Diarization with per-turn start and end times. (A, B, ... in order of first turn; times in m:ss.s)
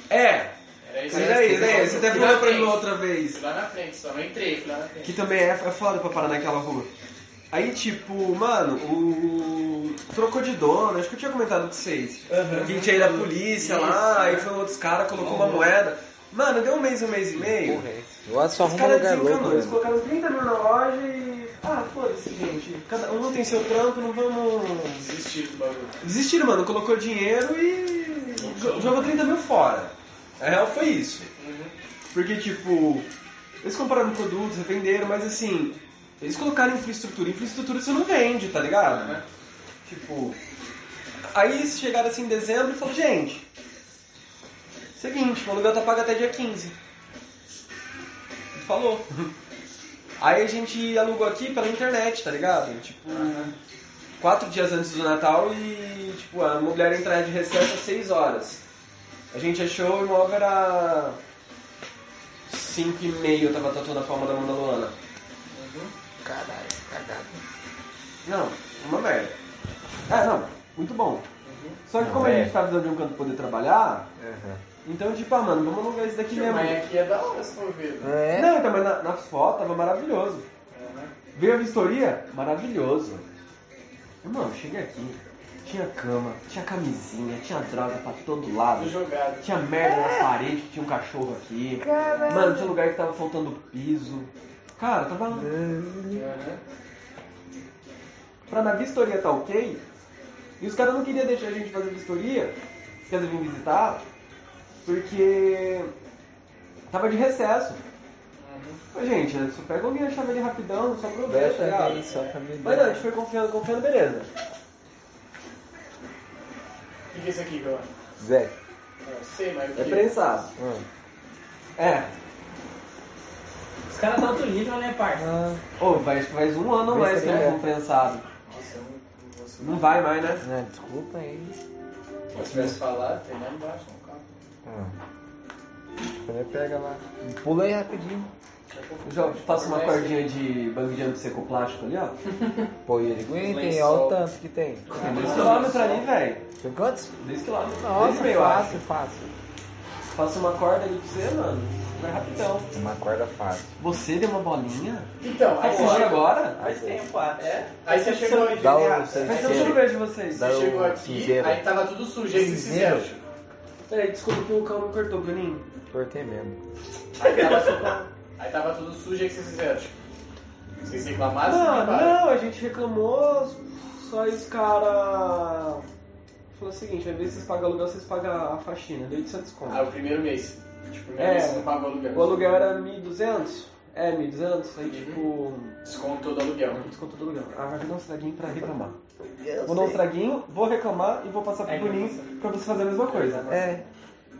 0:00.1-0:00.5 A
0:00.8-0:05.0 B
0:01.1-0:02.1 C
0:01.1-0:03.4 A
0:05.0-0:06.9 A
0:07.5-0:17.8 A
0:12.3-0:12.8 D
0:12.5-0:14.5 B
0:15.1-0:15.7 D
0:17.4-0:19.8 C
0:18.6-0:25.1 A
0:24.9-0:26.0 B
0:26.0-0:31.3 A
0:31.4-0:31.7 B
0:32.1-0:33.1 A
0:33.6-0:39.2 A
0:39.8-0:40.4 A
0:41.3-0:43.4 A
0:45.0-0:46.8 A
0:48.5-0:49.3 A
0:50.2-0:53.5 A
0:53.1-0:53.5 B
0:54.2-0:58.6 A
0:59.3-1:01.2 A
1:02.5-1:04.9 A
1:05.5-1:05.9 B
1:06.2-1:07.4 C
1:08.2-1:09.3 A
1:10.1-1:11.2 A
1:11.4-1:11.8 B
1:11.8-1:14.1 A
1:12.0-1:12.5 C
1:14.2-1:14.6 C
1:14.8-1:16.8 A
1:16.3-1:18.1 B
1:18.0-1:18.5 C
1:18.3-1:20.5 A
1:20.7-1:21.1 B
1:21.3-1:23.2 A
1:24.2-1:35.6 A
1:28.7-1:29.5 B
1:29.8-1:30.3 C
1:31.8-1:32.7 C
1:35.3-1:36.3 C
1:36.1-1:36.6 B
1:38.5-1:39.8 A
1:40.6-1:42.6 A
1:43.1-1:44.0 A
1:44.8-1:45.9 A
1:46.9-1:47.8 A
1:48.4-1:48.8 B
1:48.9-1:54.3 A
1:51.2-1:53.0 C
1:57.1-1:57.9 B
1:58.2-1:58.5 C
1:59.0-2:00.0 B
1:59.7-2:00.5 A
2:00.6-2:00.8 C
2:01.8-2:02.1 A
2:03.9-2:05.3 D
2:05.1-2:05.6 C
2:05.8-2:08.3 A
2:06.9-2:07.6 C
2:08.4-2:10.1 B
2:09.6-2:10.4 A
2:10.4-2:11.6 C
2:12.3-2:14.2 B
2:12.4-2:12.8 A
2:14.6-2:14.9 C
2:16.1-2:18.3 C
2:18.7-2:20.3 B
2:19.0-2:22.1 A
2:22.4-2:22.7 B
2:22.8-2:24.9 C
2:23.4-2:24.2 B
2:24.9-2:25.9 D
2:25.0-2:26.0 B
2:25.0-2:26.4 A
2:26.6-2:27.2 C
2:27.2-2:28.8 A
2:27.7-2:29.3 C
2:30.1-2:32.7 A
2:32.7-2:33.7 C
2:33.8-2:36.6 A
2:35.2-2:36.2 B
2:35.6-2:39.8 D
2:36.6-2:37.0 C
2:37.4-2:38.7 B
2:38.6-2:41.6 C
2:39.2-2:40.5 A
2:40.4-2:43.2 B
2:42.3-2:43.1 C
2:43.9-2:45.6 A
2:45.9-2:46.6 C
2:47.2-2:49.9 B
2:47.2-2:48.0 D
2:50.8-2:52.2 B
2:51.4-2:55.8 A
2:56.5-2:59.9 A
2:59.6-3:02.4 B
3:01.2-3:05.8 A
3:04.9-3:05.2 B
3:05.8-3:06.8 B
3:06.7-3:09.0 A
3:09.3-3:10.0 C
3:09.6-3:13.7 A
3:11.6-3:12.3 D
3:13.1-3:13.4 D
3:13.5-3:13.8 C